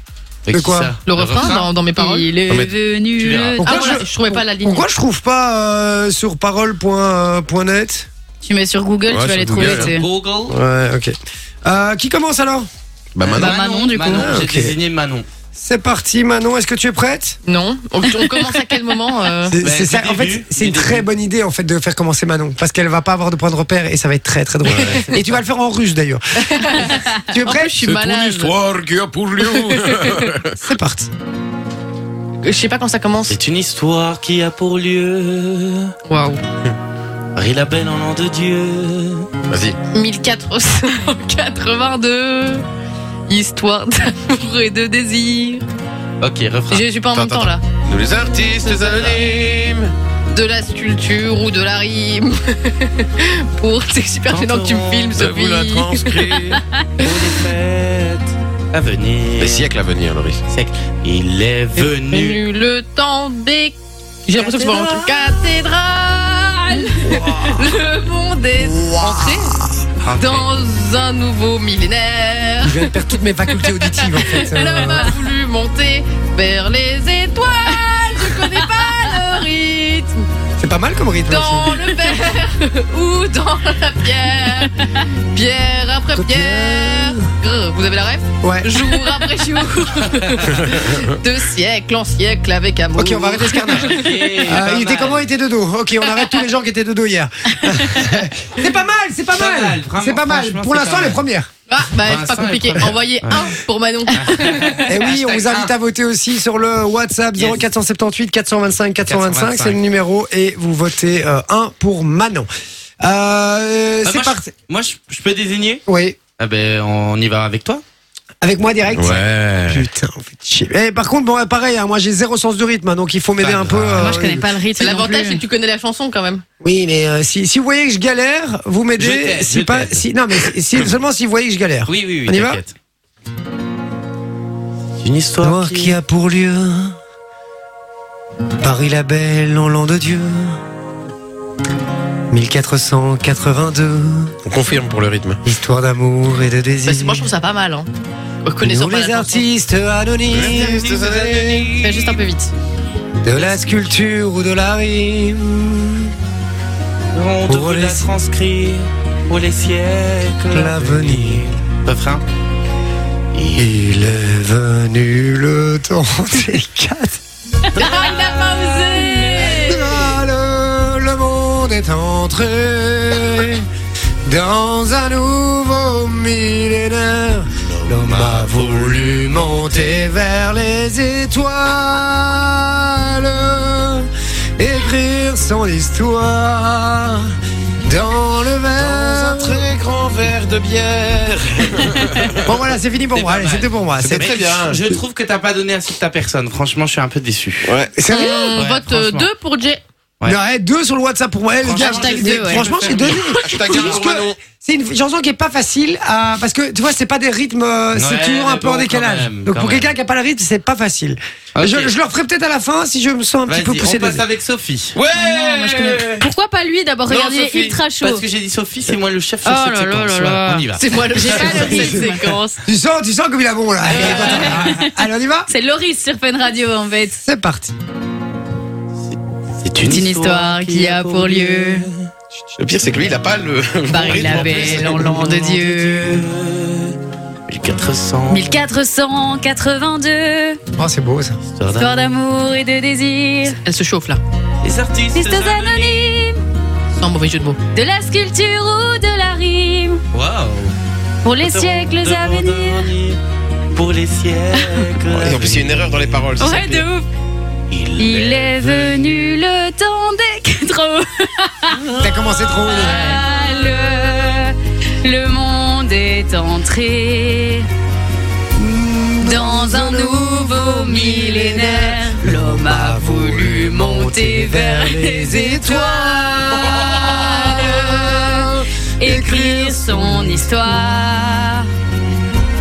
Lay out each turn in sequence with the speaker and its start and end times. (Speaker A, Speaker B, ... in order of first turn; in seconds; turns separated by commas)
Speaker A: 0.5-1.7, Speaker B: 0.5-0.9, Speaker C: 1.0-2.4, Speaker D: 1.9-3.9, Speaker A: 3.1-3.6, Speaker B: 3.6-8.1, Speaker C: 3.6-4.9, Speaker D: 8.4-10.0, Speaker E: 9.1-9.9, Speaker A: 9.6-10.6, Speaker B: 10.5-12.7, Speaker E: 13.2-13.5, Speaker A: 13.3-15.2, Speaker D: 13.4-14.3, Speaker B: 14.1-14.8, Speaker B: 15.5-17.4, Speaker C: 17.4-19.6, Speaker B: 19.4-27.7, Speaker A: 19.6-21.1, Speaker C: 26.4-28.5, Speaker E: 27.8-30.6, Speaker C: 29.4-30.3, Speaker B: 30.6-31.1, Speaker C: 32.4-33.4, Speaker A: 33.3-35.9, Speaker C: 36.1-36.4, Speaker A: 37.4-39.3, Speaker E: 39.5-39.8, Speaker C: 39.9-42.6, Speaker C: 43.3-45.6, Speaker A: 46.2-46.9, Speaker C: 46.7-47.6, Speaker E: 47.1-49.9, Speaker A: 48.3-49.3, Speaker C: 50.3-56.2, Speaker A: 54.3-55.1, Speaker E: 55.1-56.6, Speaker A: 57.0-59.7, Speaker E: 59.4-60.4, Speaker A: 60.5-62.5, Speaker C: 61.8-69.6, Speaker E: 64.4-65.1, Speaker A: 70.0-70.5, Speaker C: 70.1-72.9, Speaker B: 72.6-75.0, Speaker C: 73.8-80.3, Speaker D: 74.6-74.9, Speaker D: 78.4-79.0, Speaker B: 80.6-81.7, Speaker C: 81.3-84.7, Speaker C: 85.3-94.3, Speaker B: 86.1-87.3, Speaker B: 88.4-88.7, Speaker A: 90.3-90.6, Speaker B: 92.9-101.5, Speaker A: 93.7-95.3, Speaker A: 99.3-101.2, Speaker C: 101.7-104.8, Speaker A: 102.0-103.5, Speaker A: 104.1-105.7, Speaker B: 104.8-112.5, Speaker A: 107.3-107.6, Speaker A: 109.0-109.8, Speaker B: 113.0-114.5, Speaker A: 114.0-115.8, Speaker B: 115.9-116.2, Speaker A: 116.4-117.8, Speaker B: 118.4-124.5, Speaker E: 118.9-119.9, Speaker A: 123.4-124.2, Speaker E: 123.7-124.0, Speaker D: 123.9-125.4, Speaker C: 124.7-126.4, Speaker B: 126.6-132.6, Speaker A: 128.9-130.0, Speaker A: 131.8-132.7, Speaker A: 135.0-135.9, Speaker B: 135.4-136.9, Speaker B: 138.6-140.6, Speaker B: 142.3-144.3, Speaker E: 144.4-145.4, Speaker B: 145.4-147.3, Speaker C: 146.8-147.9, Speaker C: 148.4-149.5, Speaker B: 148.6-151.7, Speaker E: 150.3-152.2, Speaker C: 151.8-152.5, Speaker B: 153.2-156.1, Speaker A: 157.1-162.2, Speaker B: 157.4-158.1, Speaker B: 160.5-161.4, Speaker A: 163.3-163.8, Speaker B: 163.6-167.2, Speaker C: 167.8-169.5, Speaker D: 167.8-169.9, Speaker A: 167.8-168.6, Speaker B: 169.5-173.6, Speaker B: 174.2-184.1, Speaker A: 177.7-180.0, Speaker B: 184.6-187.2, Speaker B: 187.8-189.7, Speaker E: 188.7-192.5, Speaker B: 192.4-194.3, Speaker A: 193.1-197.7, Speaker E: 194.0-194.8, Speaker E: 197.7-197.9, Speaker B: 197.9-198.6, Speaker C: 198.1-199.8, Speaker A: 198.5-199.3, Speaker B: 200.2-214.2, Speaker A: 201.6-203.9, Speaker D: 201.9-202.6, Speaker E: 202.6-204.4, Speaker A: 207.9-209.9, Speaker A: 211.5-211.9, Speaker A: 213.5-215.0, Speaker E: 214.9-216.3, Speaker D: 215.1-218.2, Speaker E: 217.1-217.8, Speaker A: 218.0-221.8, Speaker D: 219.4-222.6, Speaker C: 220.8-222.4, Speaker B: 221.4-222.1, Speaker B: 222.7-225.5, Speaker A: 223.8-224.7, Speaker D: 223.9-225.0, Speaker D: 225.5-227.2, Speaker B: 227.2-227.7, Speaker A: 229.1-232.1, Speaker D: 229.8-231.8, Speaker E: 232.6-235.1, Speaker D: 233.9-236.3, Speaker A: 234.0-237.0, Speaker A: 237.5-238.6, Speaker D: 238.3-240.6, Speaker B: 240.8-241.3, Speaker A: 241.6-242.0, Speaker D: 241.7-243.6, Speaker C: 243.6-244.2, Speaker A: 244.6-246.1, Speaker D: 245.1-246.4, Speaker C: 247.0-247.6, Speaker D: 247.7-250.0, Speaker A: 250.1-250.7, Speaker D: 251.2-252.9, Speaker A: 251.4-253.2, Speaker A: 253.7-256.2, Speaker D: 254.5-254.9, Speaker E: 255.1-256.9, Speaker D: 256.4-257.1, Speaker A: 257.7-259.3, Speaker D: 257.9-261.8, Speaker A: 261.7-263.0, Speaker B: 262.0-263.2, Speaker D: 262.6-267.6, Speaker B: 268.6-280.4, Speaker D: 269.2-281.6, Speaker E: 276.7-277.1